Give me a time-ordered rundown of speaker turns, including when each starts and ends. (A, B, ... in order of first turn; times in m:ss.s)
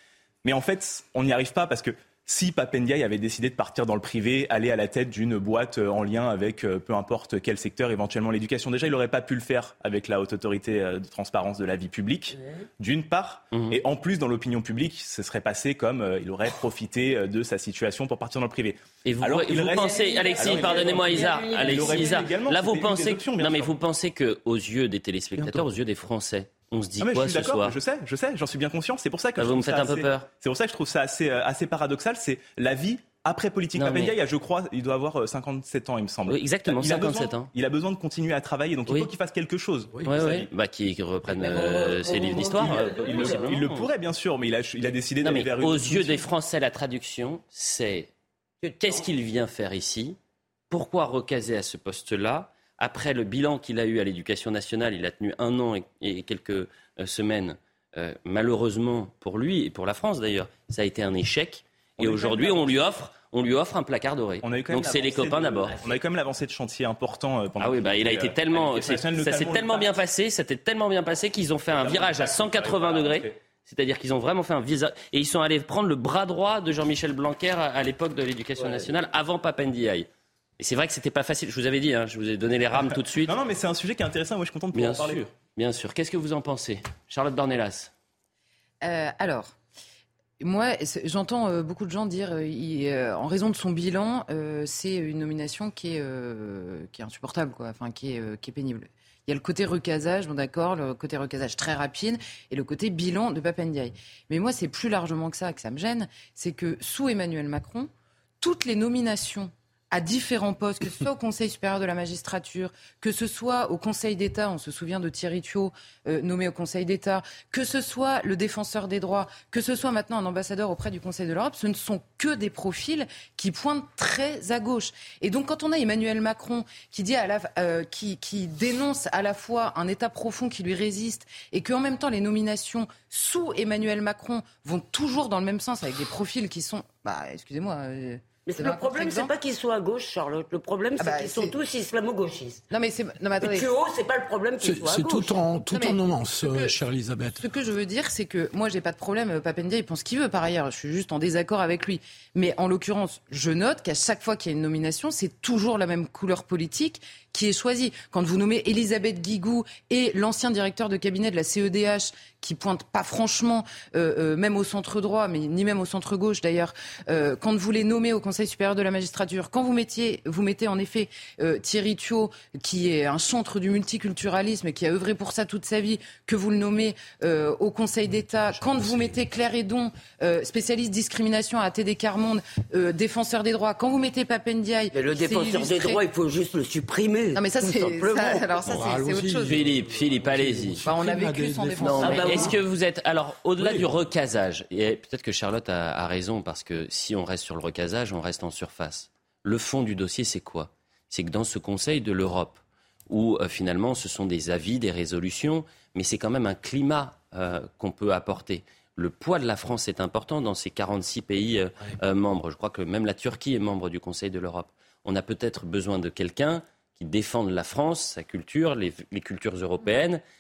0:00.4-0:23.7 A
0:19.0-0:27.8 B
0:19.7-0:22.4 C
0:27.0-0:40.5 A
0:29.4-0:30.3 B
0:33.8-0:34.1 B
0:36.3-0:37.5 B
0:40.0-0:43.9 B
0:41.3-0:43.6 C
0:42.2-0:46.2 A
0:45.2-0:48.1 B
0:48.6-0:49.1 C
0:48.8-0:50.2 B
0:50.7-1:05.8 B
1:02.0-1:02.8 A
1:04.4-1:09.9 A
1:07.6-1:23.4 B
1:11.7-1:13.3 A
1:22.7-1:25.2 A
1:24.7-1:27.9 B
1:28.8-1:29.6 D
1:30.4-2:19.3 D
2:18.5-2:22.6 C
2:21.0-2:21.5 D
2:22.7-2:23.7 D
2:23.4-2:25.4 C
2:24.6-2:27.4 E
2:25.7-2:26.8 D
2:27.4-3:06.0 D
3:04.9-3:08.4 C
3:07.4-3:09.6 D
3:08.6-3:12.5 E
3:09.4-3:10.8 B
3:10.8-3:12.5 D
3:11.8-3:40.2 B
3:12.0-3:12.5 C
3:13.6-3:13.9 E